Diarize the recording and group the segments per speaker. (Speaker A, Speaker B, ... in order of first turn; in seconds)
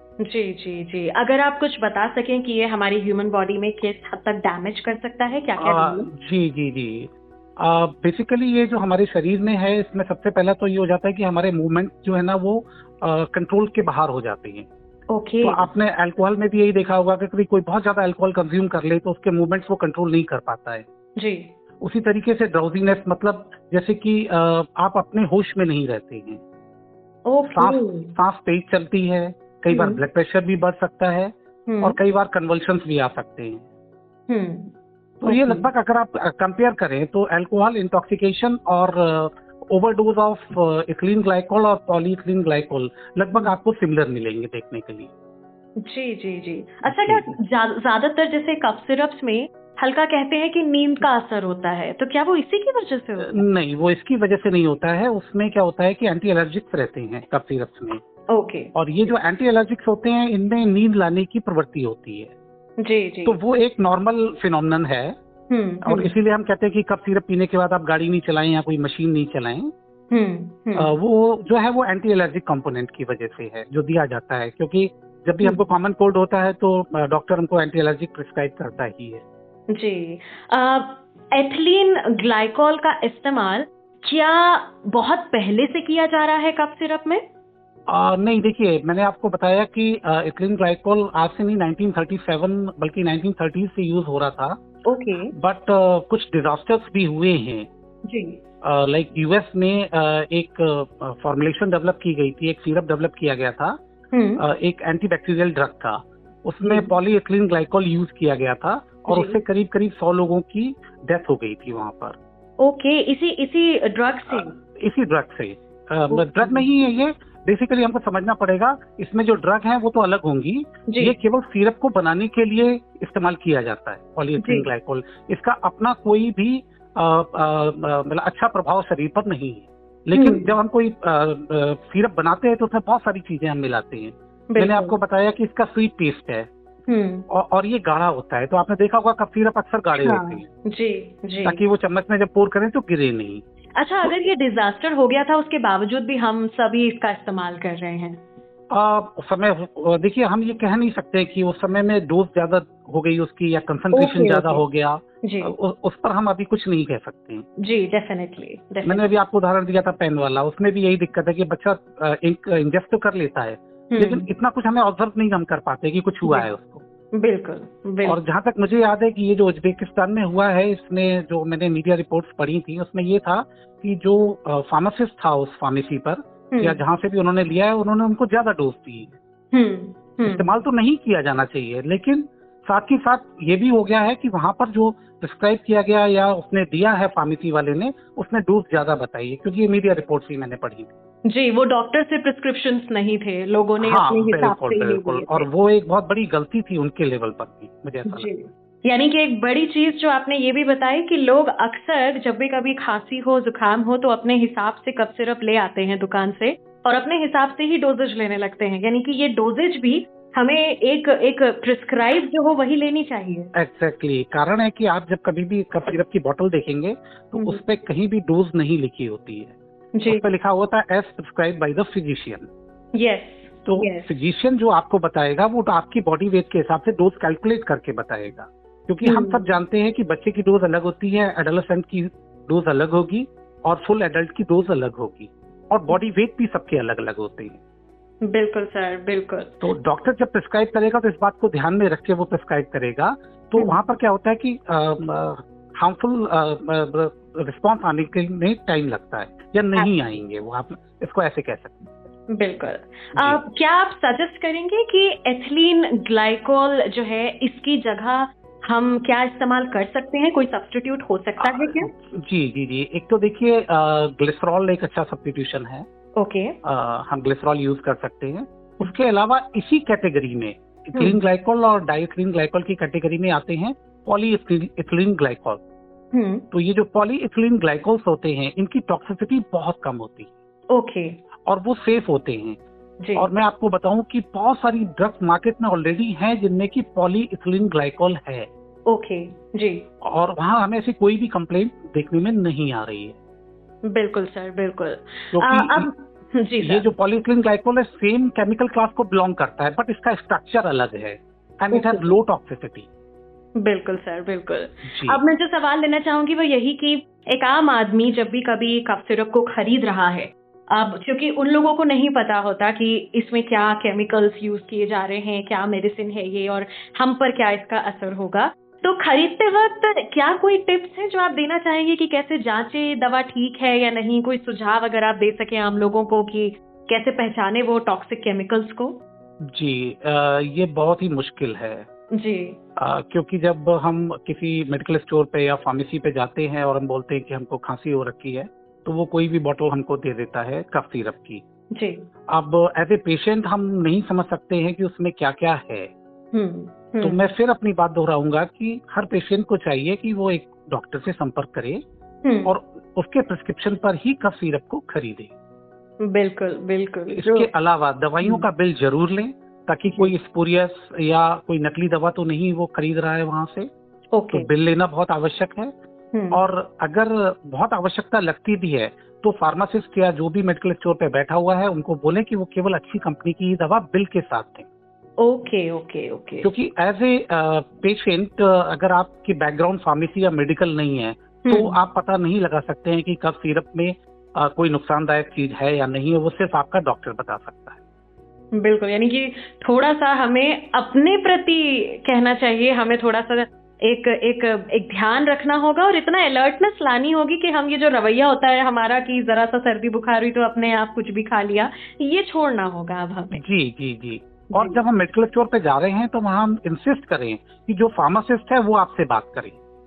Speaker A: 0.2-6.1, 15.1-15.7, 21.2-21.5, 27.3-28.1, 29.7-30.0, 31.7-32.0, 34.3-34.7, 35.2-35.7, 45.8-53.4, 58.3-58.7, 62.8-63.4, 65.5-66.1, 70.1-71.0, 79.7-87.2, 94.8-95.3, 98.0-98.4, 104.1-104.4, 106.6-106.9, 109.1-109.4, 112.6-114.5, 116.1-116.7, 120.9-121.1, 124.4-124.7, 130.1-130.6, 134.5-134.9, 136.9-137.2, 140.0-141.6, 143.8-148.2, 153.9-154.6, 155.2-155.5, 157.6-159.1, 163.9-164.3, 167.1-168.2, 176.5-176.8, 179.5-180.5, 191.3-195.5, 198.1-213.5, 217.3-217.6, 219.9-220.2, 222.9-224.1, 229.0-229.4, 238.3-239.5, 252.3-261.9, 266.1-266.6, 270.9-271.2, 276.1-276.4, 280.7-281.1, 283.0-283.3, 288.9-289.8, 293.9-296.9, 301.7-302.1, 303.6-329.0, 332.1-332.6, 341.7-342.1, 346.3-347.2, 352.2-352.5, 356.0-357.5, 364.1-364.5, 366.1-366.4, 375.2-376.5, 381.4-381.8, 388.5-403.4, 404.5-404.8
Speaker B: 5.6-14.7, 15.4-20.9, 21.8-26.4, 27.5-33.6, 35.2-45.1, 46.8-47.4, 53.2-58.0, 58.7-62.3, 63.2-65.2, 65.8-69.7, 70.8-79.2, 87.9-94.6, 95.3-97.7, 98.6-103.8, 104.4-112.2, 114.3-136.5, 137.3-140.5, 141.4-143.4, 148.7-157.4, 158.8-166.8, 168.0-179.1, 180.2-190.9, 193.8-198.3, 213.5-219.5, 220.1-222.5, 223.6-237.6, 239.6-251.9, 253.2-253.4, 261.4-265.9, 266.6-275.6, 276.5-280.3, 281.4-282.6, 283.1-288.5, 290.0-293.2, 295.3-295.9, 296.6-302.9, 304.8-305.2, 329.5-331.9, 332.8-341.4, 342.3-345.9, 347.0-351.8, 352.4-355.3, 357.1-363.7, 364.3-365.7, 366.3-374.7, 376.4-387.8, 403.3-409.6